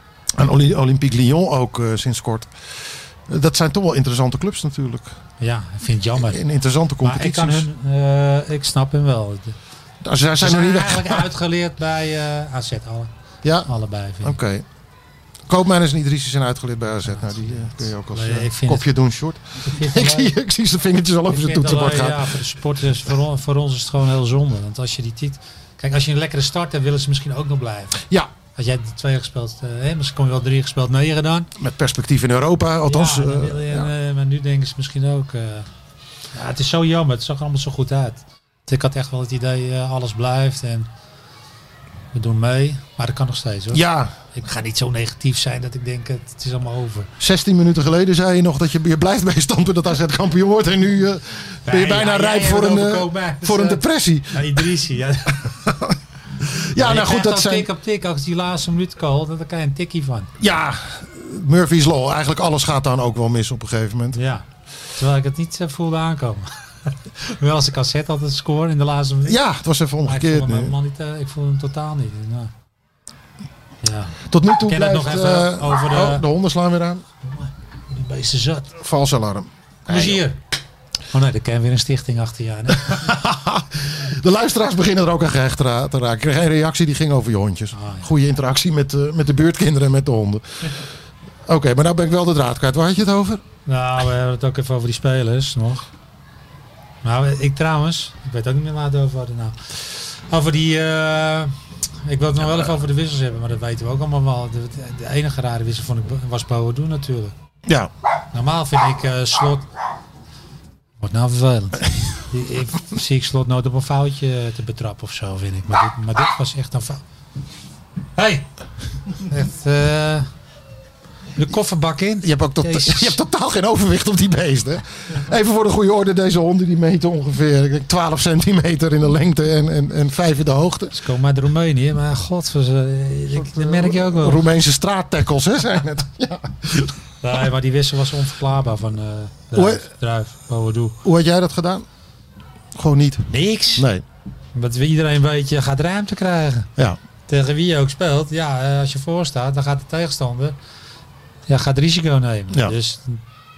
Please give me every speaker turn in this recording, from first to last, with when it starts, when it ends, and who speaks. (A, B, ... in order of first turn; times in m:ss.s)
0:00.3-0:05.1 A
0:05.4-0:06.4 B
0:06.2-0:07.7 A
0:07.0-0:09.6 B
0:10.0-0:11.2 A
0:10.4-0:13.1 B
0:13.4-0:13.7 A
0:13.6-0:14.3 B
0:14.2-0:14.6 A
0:15.5-0:22.4 A
0:17.1-0:18.8 B
0:19.6-0:20.3 B
0:21.3-0:28.0 B
0:28.5-0:31.5 B
0:31.6-0:33.9 A
0:32.8-0:35.7 B
0:36.3-0:40.9 B
0:42.1-0:43.8 B
0:43.7-0:44.1 A
0:44.3-0:47.1 B
0:47.2-0:54.7 A
0:51.6-0:55.6 B
0:55.6-0:57.7 A
0:56.7-1:00.3 B
1:00.4-1:04.2 A
1:04.1-1:09.4 B
1:09.2-1:10.7 A
1:10.0-1:12.5 B
1:13.8-1:16.2 B
1:14.3-1:17.0 A
1:17.2-1:18.7 B
1:18.8-1:20.2 A
1:19.9-1:20.4 B
1:21.1-1:23.1 B
1:22.7-1:30.7 A
1:27.7-1:28.1 B
1:31.4-1:33.4 A
1:33.6-1:35.8 B
1:37.0-1:47.3 B
1:48.3-1:49.7 B
1:51.0-1:57.0 B
1:58.2-1:58.5 B
1:59.2-2:00.3 B
2:01.4-2:03.2 B
2:02.2-2:10.9 A
2:10.9-2:14.4 B
2:13.3-2:17.0 A
2:17.2-2:21.0 B
2:19.5-2:19.8 A
2:21.0-2:21.8 A
2:22.7-2:24.0 A
2:23.3-2:23.8 B
2:24.5-2:26.7 B
2:27.3-2:30.6 B
2:31.5-2:33.2 B